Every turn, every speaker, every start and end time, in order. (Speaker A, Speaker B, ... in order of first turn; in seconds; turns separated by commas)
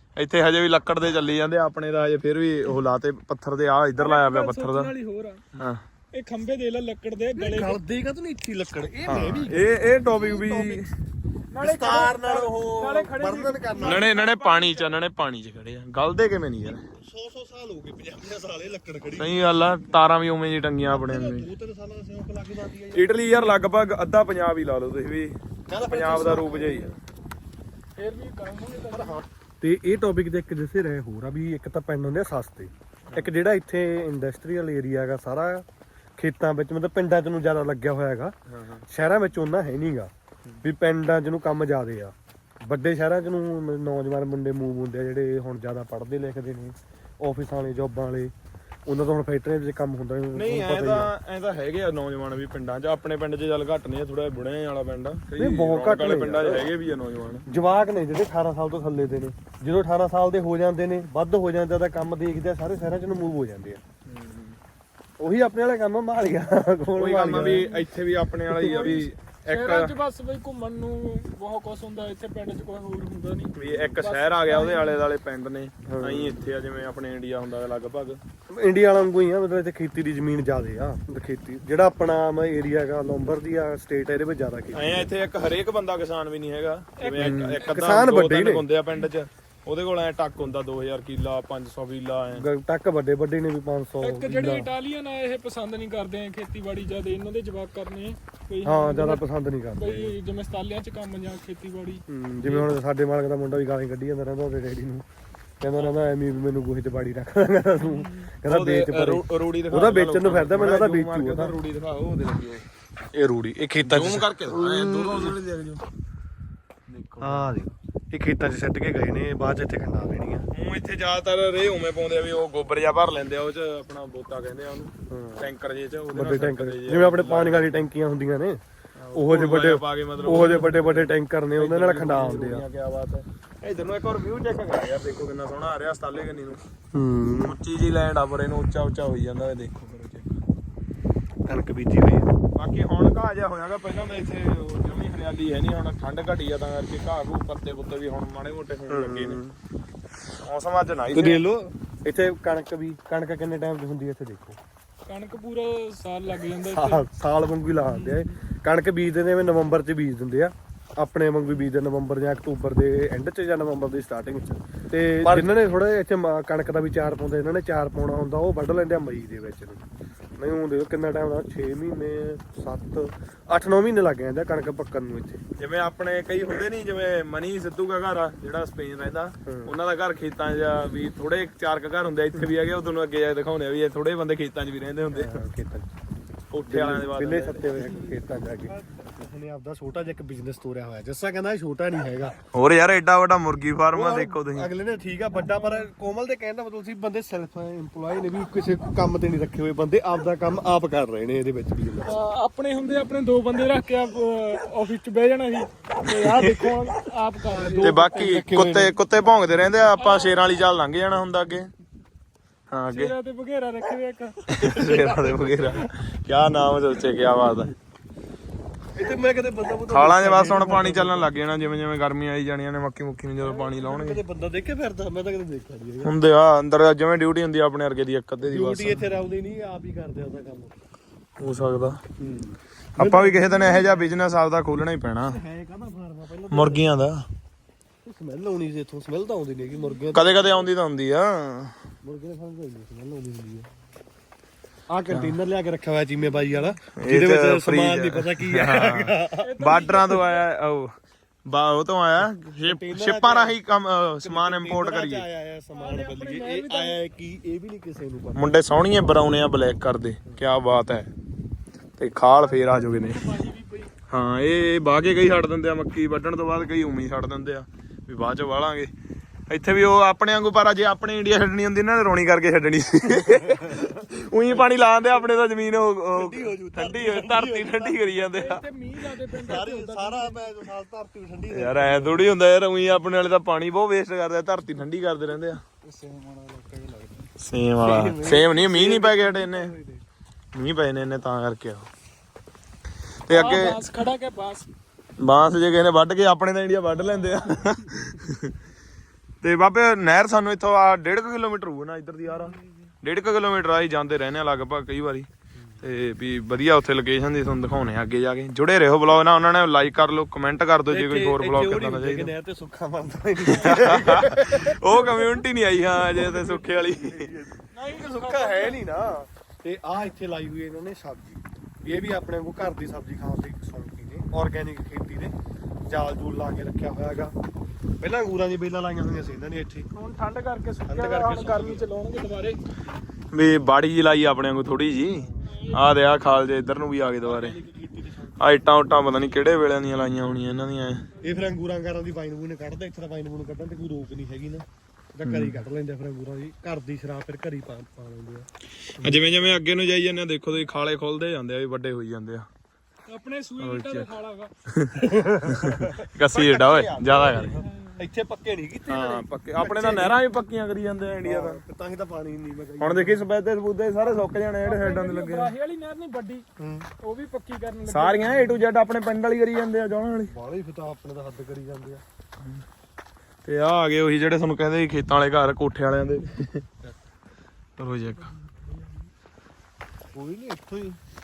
Speaker A: 0.2-4.9, Speaker B: 4.0-5.4, Speaker A: 5.5-5.8, Speaker B: 6.1-7.8, Speaker C: 7.3-10.8, Speaker A: 9.1-10.9, Speaker B: 11.5-14.9, Speaker C: 11.6-14.1, Speaker A: 13.8-16.9, Speaker C: 16.9-19.8, Speaker A: 19.2-21.5, Speaker C: 20.8-23.4, Speaker A: 22.9-26.9, Speaker C: 25.7-26.9, Speaker B: 28.0-29.2, Speaker C: 28.9-35.6, Speaker C: 36.2-38.3, Speaker A: 38.5-38.8, Speaker C: 38.9-40.1, Speaker C: 40.6-48.3, Speaker C: 48.9-51.1, Speaker A: 50.3-57.5, Speaker C: 55.3-56.8, Speaker C: 57.5-63.8, Speaker A: 64.1-64.6, Speaker C: 65.2-67.8, Speaker A: 67.0-69.9, Speaker C: 68.5-69.1, Speaker B: 69.5-75.0, Speaker A: 73.6-78.2, Speaker C: 75.8-76.5, Speaker C: 78.5-85.1, Speaker A: 84.7-92.5, Speaker B: 87.0-87.7, Speaker C: 87.1-88.6, Speaker C: 92.3-94.7, Speaker B: 94.0-99.2, Speaker C: 98.6-100.1, Speaker B: 99.8-102.0, Speaker C: 102.1-105.0, Speaker C: 105.6-111.5, Speaker B: 107.8-108.3, Speaker A: 108.5-112.7, Speaker C: 113.1-115.4, Speaker A: 113.8-115.8, Speaker A: 116.9-117.6, Speaker C: 117.2-120.5, Speaker A: 120.5-127.8, Speaker C: 125.1-125.5, Speaker C: 126.1-128.6, Speaker A: 129.0-136.6, Speaker C: 129.1-132.6, Speaker C: 136.9-137.6, Speaker A: 137.4-140.4, Speaker C: 141.4-142.3, Speaker A: 142.6-149.4, Speaker C: 148.9-149.6, Speaker A: 150.4-151.4, Speaker C: 151.1-154.6, Speaker B: 155.1-157.0, Speaker C: 156.7-169.8, Speaker B: 157.9-158.3, Speaker A: 165.2-165.5, Speaker C: 170.4-175.4, Speaker A: 175.6-185.4, Speaker C: 179.4-179.7, Speaker C: 185.1-185.9, Speaker A: 186.5-187.8, Speaker C: 186.7-192.3, Speaker A: 192.5-194.7, Speaker C: 193.9-202.2, Speaker B: 202.0-208.0, Speaker A: 206.0-206.7, Speaker C: 207.5-209.0, Speaker A: 207.8-211.7, Speaker B: 209.9-210.4, Speaker A: 212.7-213.1, Speaker B: 212.9-215.3, Speaker A: 214.5-217.7, Speaker C: 218.9-221.3, Speaker A: 219.9-224.2, Speaker C: 223.4-226.1, Speaker A: 226.0-229.1, Speaker C: 228.5-230.8, Speaker A: 231.4-232.0, Speaker C: 232.2-234.2, Speaker A: 233.0-235.4, Speaker C: 235.2-236.9, Speaker A: 236.5-237.3, Speaker C: 238.0-240.7, Speaker A: 240.1-241.7, Speaker C: 242.0-243.7, Speaker C: 244.9-249.6, Speaker A: 245.1-245.3, Speaker A: 246.9-250.9, Speaker B: 249.4-250.4, Speaker A: 251.5-255.2, Speaker C: 252.6-253.6, Speaker C: 254.2-259.4, Speaker B: 255.7-257.0, Speaker A: 258.4-261.1, Speaker A: 262.0-263.2, Speaker B: 262.5-263.9, Speaker A: 264.1-268.9, Speaker A: 269.5-278.6, Speaker C: 273.2-273.9, Speaker C: 276.1-278.1, Speaker B: 278.3-280.4, Speaker C: 279.3-282.3, Speaker A: 281.5-285.6, Speaker C: 285.8-290.0, Speaker A: 287.4-289.7, Speaker A: 290.5-291.9, Speaker A: 293.3-293.8, Speaker B: 293.3-294.6, Speaker A: 295.2-298.5, Speaker A: 299.4-305.3, Speaker C: 305.6-305.8, Speaker A: 305.8-312.3, Speaker C: 310.9-315.2, Speaker A: 313.5-317.3, Speaker C: 315.9-325.3, Speaker B: 317.7-318.9, Speaker C: 325.9-327.3, Speaker C: 328.0-329.9, Speaker B: 329.9-332.6, Speaker C: 330.9-331.9, Speaker A: 333.3-337.6, Speaker C: 335.2-335.5, Speaker B: 335.4-336.0, Speaker C: 337.2-338.6, Speaker A: 338.4-341.0, Speaker C: 341.2-349.5, Speaker A: 345.2-345.6, Speaker A: 348.8-352.5, Speaker B: 353.1-354.5, Speaker A: 353.6-354.1, Speaker A: 354.7-357.6, Speaker C: 355.0-360.2, Speaker B: 357.6-357.9, Speaker A: 358.9-361.6, Speaker C: 361.2-363.2, Speaker A: 362.8-365.5, Speaker B: 364.6-366.4, Speaker C: 366.6-366.9, Speaker B: 367.0-368.6, Speaker A: 367.9-370.3, Speaker C: 370.3-372.0, Speaker A: 373.4-376.6, Speaker A: 377.8-378.3, Speaker C: 380.1-381.0